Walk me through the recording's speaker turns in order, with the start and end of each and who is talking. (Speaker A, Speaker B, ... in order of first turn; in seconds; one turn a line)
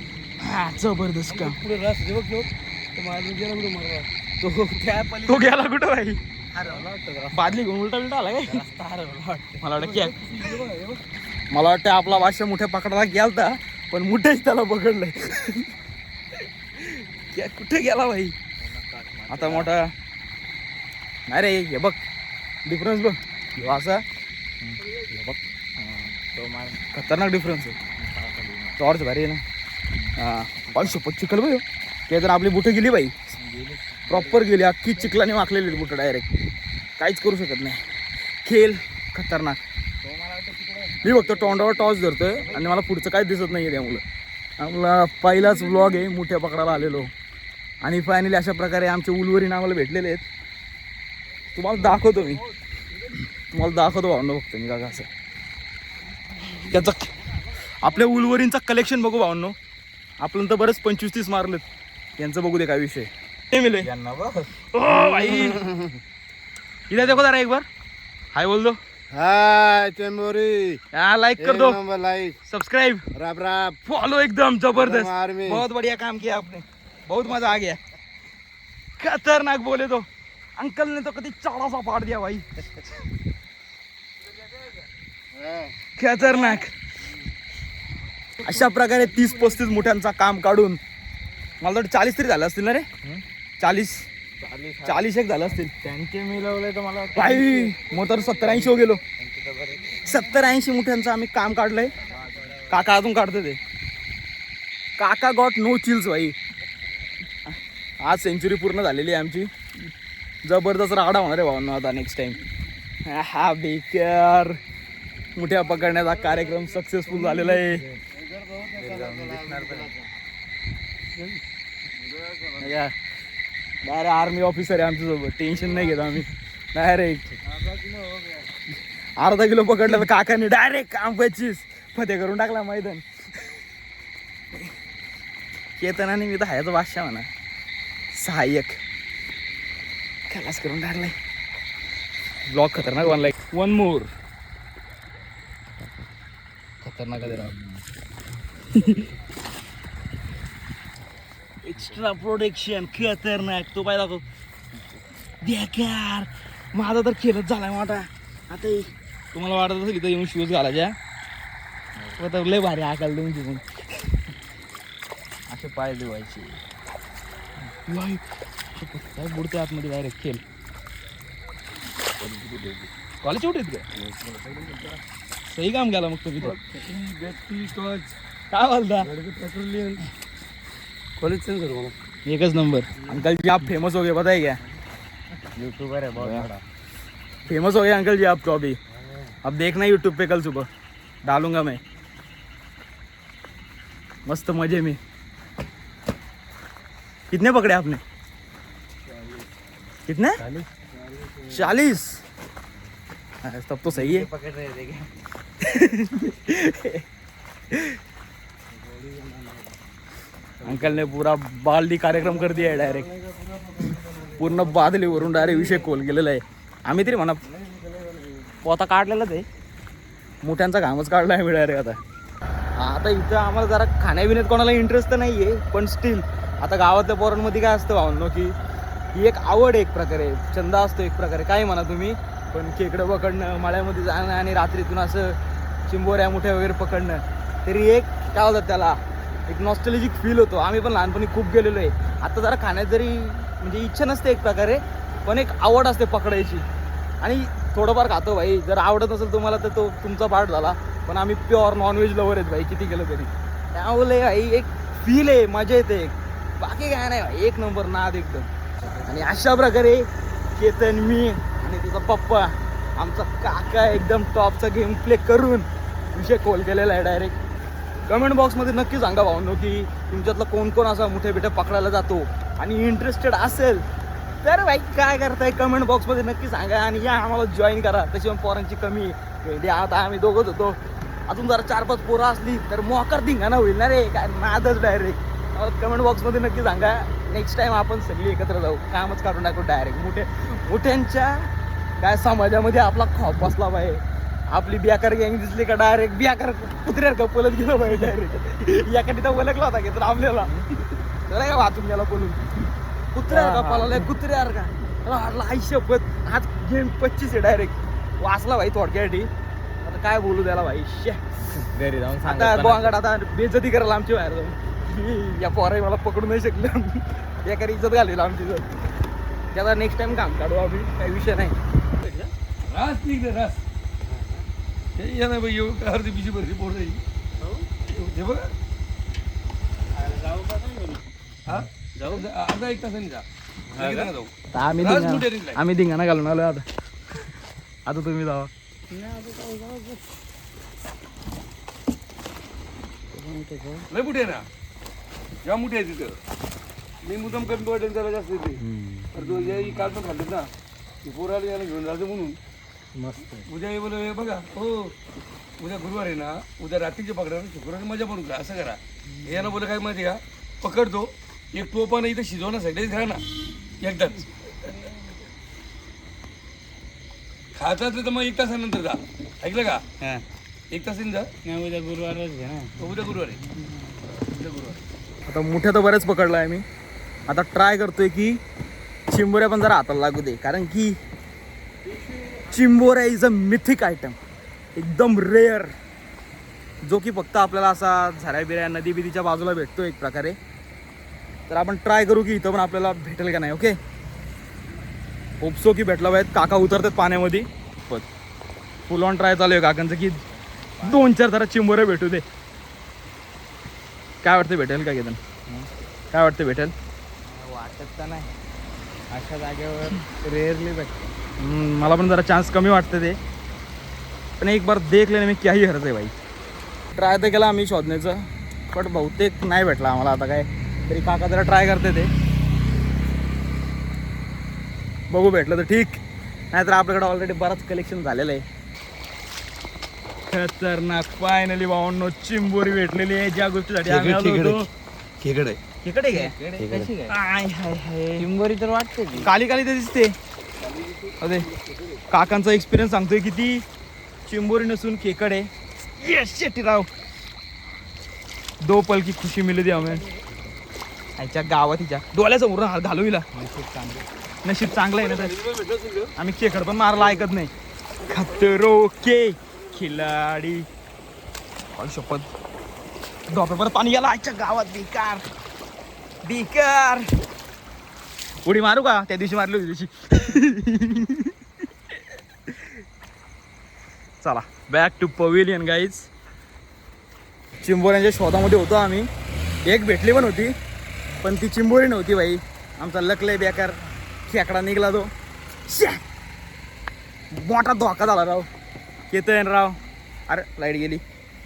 Speaker A: 0.4-1.6
Speaker B: 1.3-4.1
Speaker C: 4.4-5.6
Speaker A: 5.3-6.2
Speaker C: 6.5-7.7
Speaker A: 7.3-8.6
Speaker C: 8.4-9.6
Speaker A: 9.6-10.1
Speaker B: 9.7-11.0
Speaker A: 11.5-15.7
Speaker A: 16.8-18.4
Speaker C: 18.6-19.8
Speaker A: 19.3-19.9
Speaker A: 21.3-22.0
Speaker A: 22.6-24.0
Speaker C: 24.6-26.8
Speaker A: 26.9-27.8
Speaker C: 27.9-28.8
Speaker A: 28.8-29.4
Speaker C: 29.9-31.0
Speaker A: 30.2-33.1
Speaker C: 33.4-34.5
Speaker A: 34.1-36.3
Speaker A: 37.0-37.8
Speaker A: 38.4-39.6
Speaker C: 40.0-42.9
Speaker A: 41.0-44.0
Speaker A: 44.6-47.1
Speaker A: 47.8-50.2
Speaker A: 51.5-52.4
Speaker A: 53.5-55.1
Speaker A: 56.5-57.1
Speaker A: 57.8-59.6
Speaker A: 60.2-61.6
Speaker A: 62.2-63.9
Speaker C: 63.8-64.6
Speaker A: 64.7-65.7
Speaker D: 65.1-65.9
Speaker A: 66.9-67.7
Speaker A: 68.3-68.8
Speaker D: 69.1-70.8
Speaker A: 70.9-71.8
Speaker D: 71.4-72.3
Speaker A: 72.5-73.1
Speaker D: 73.2-73.8
Speaker A: 73.8-77.8
Speaker D: 74.8-75.6
Speaker A: 79.0-82.8
Speaker D: 85.4-85.7
Speaker A: 86.0-86.7
Speaker C: 86.2-86.7
Speaker A: 88.4-90.8
Speaker A: 91.6-92.9
Speaker A: 93.6-94.1
Speaker C: 94.4-100.2
Speaker A: 94.8-95.7
Speaker A: 97.1-99.0
Speaker A: 100.0-102.0
Speaker C: 102.0-102.8
Speaker A: 102.7-103.6
Speaker A: 105.0-106.4
Speaker A: 107.5-109.5
Speaker A: 110.4-112.4
Speaker A: 113.1-114.6
Speaker A: 115.4-117.9
Speaker D: 118.5-120.0
Speaker C: 118.7-120.0
Speaker A: 122.6-122.9
Speaker A: 123.8-127.4
Speaker A: 129.2-133.1
Speaker A: 135.8-137.3
Speaker A: 138.1-138.8
Speaker A: 140.3-141.2
Speaker A: 142.5-144.1
Speaker A: 146.8-147.6
Speaker C: 147.3-147.6
Speaker A: 148.7-149.1
Speaker A: 151.6-154.2
Speaker A: 155.4-161.0
Speaker A: 162.2-163.7
Speaker A: 165.5-166.6
Speaker A: 167.8-170.4
Speaker B: 172.5-172.9
Speaker A: 173.2-173.8
Speaker B: 174.0-175.0
Speaker A: 175.5-176.6
Speaker B: 176.4-178.2
Speaker A: 178.5-179.1
Speaker B: 179.0-180.1
Speaker B: 181.2-181.9
Speaker A: 182.3-184.6
Speaker C: 185.5-186.6
Speaker A: 186.2-186.5
Speaker A: 187.5-188.8
Speaker A: 189.4-190.7
Speaker A: 191.2-191.8
Speaker A: 194.3-195.0
Speaker A: 197.3-198.0
Speaker A: 200.1-200.4
Speaker C: 200.4-200.7
Speaker A: 201.5-202.2
Speaker A: 203.4-204.3
Speaker C: 203.9-205.1
Speaker A: 205.6-207.0
Speaker A: 207.7-208.0
Speaker B: 209.1-209.6
Speaker C: 210.6-211.1
Speaker A: 210.6-213.1
Speaker B: 213.3-214.2
Speaker A: 214.3-217.4
Speaker B: 217.6-218.3
Speaker C: 218.6-219.4
Speaker A: 220.4-222.0
Speaker A: 222.8-228.6
Speaker A: 229.1-246.7
Speaker A: 247.2-258.5
Speaker A: 259.0-267.4
Speaker A: 268.1-273.9
Speaker A: 274.4-291.5
Speaker A: 292.0-302.4
Speaker A: 303.1-309.3
Speaker C: 303.3-304.1
Speaker A: 309.8-311.2
Speaker C: 311.5-313.0
Speaker A: 312.2-318.7
Speaker A: 319.5-321.6
Speaker B: 322.6-323.6
Speaker B: 325.0-327.0
Speaker B: 327.8-328.5
Speaker C: 330.1-330.6
Speaker B: 330.3-330.8
Speaker B: 331.5-335.6
Speaker C: 333.8-334.1
Speaker A: 334.5-336.7
Speaker A: 337.9-338.5
Speaker C: 338.9-340.0
Speaker C: 343.1-343.9
Speaker B: 343.9-344.5
Speaker B: 345.4-346.2
Speaker B: 347.0-348.6
Speaker C: 348.6-349.2
Speaker B: 349.1-350.5
Speaker B: 351.0-352.4
Speaker C: 352.9-353.4
Speaker B: 353.3-354.9
Speaker B: 355.6-364.8
Speaker C: 359.1-359.4
Speaker B: 367.6-369.9
Speaker B: 370.7-371.3
Speaker C: 371.4-372.7
Speaker B: 372.8-373.4
Speaker B: 374.1-374.8
Speaker A: 375.3-376.6
Speaker A: 377.3-378.4
Speaker A: 379.1-381.0
Speaker A: 382.4-384.2
Speaker A: 384.8-385.7
Speaker A: 386.8-390.4
Speaker A: 391.5-393.8
Speaker A: 395.4-398.1
Speaker A: 398.9-400.2
Speaker C: 400.3-401.1
Speaker A: 400.8-402.2
Speaker A: 404.2-405.2
Speaker A: 406.1-406.7
Speaker C: 407.3-408.3
Speaker C: 409.1-411.1
Speaker A: 411.4-413.2
Speaker A: 414.4-416.1
Speaker A: 416.9-422.1
Speaker A: 425.1-428.4
Speaker A: 430.3-434.7
Speaker B: 433.9-434.6
Speaker B: 435.2-435.6
Speaker A: 435.8-436.4
Speaker C: 436.1-437.2
Speaker A: 437.1-438.3
Speaker C: 438.2-439.3
Speaker A: 439.2-440.1
Speaker B: 440.6-442.0
Speaker A: 441.2-441.5
Speaker A: 442.1-443.6
Speaker A: 444.3-446.9
Speaker A: 448.6-450.1
Speaker A: 451.2-453.3
Speaker C: 453.3-454.1
Speaker A: 454.4-455.4
Speaker B: 455.1-456.1
Speaker A: 456.2-457.5
Speaker A: 458.1-460.7
Speaker A: 461.8-462.3
Speaker A: 463.3-465.3
Speaker A: 466.2-467.1
Speaker A: 468.4-471.4
Speaker A: 472.5-472.8
Speaker A: 474.2-476.1
Speaker A: 477.6-479.1
Speaker A: 479.6-480.5
Speaker A: 481.2-485.1
Speaker A: 485.7-486.0
Speaker A: 487.3-488.5
Speaker A: 489.1-491.0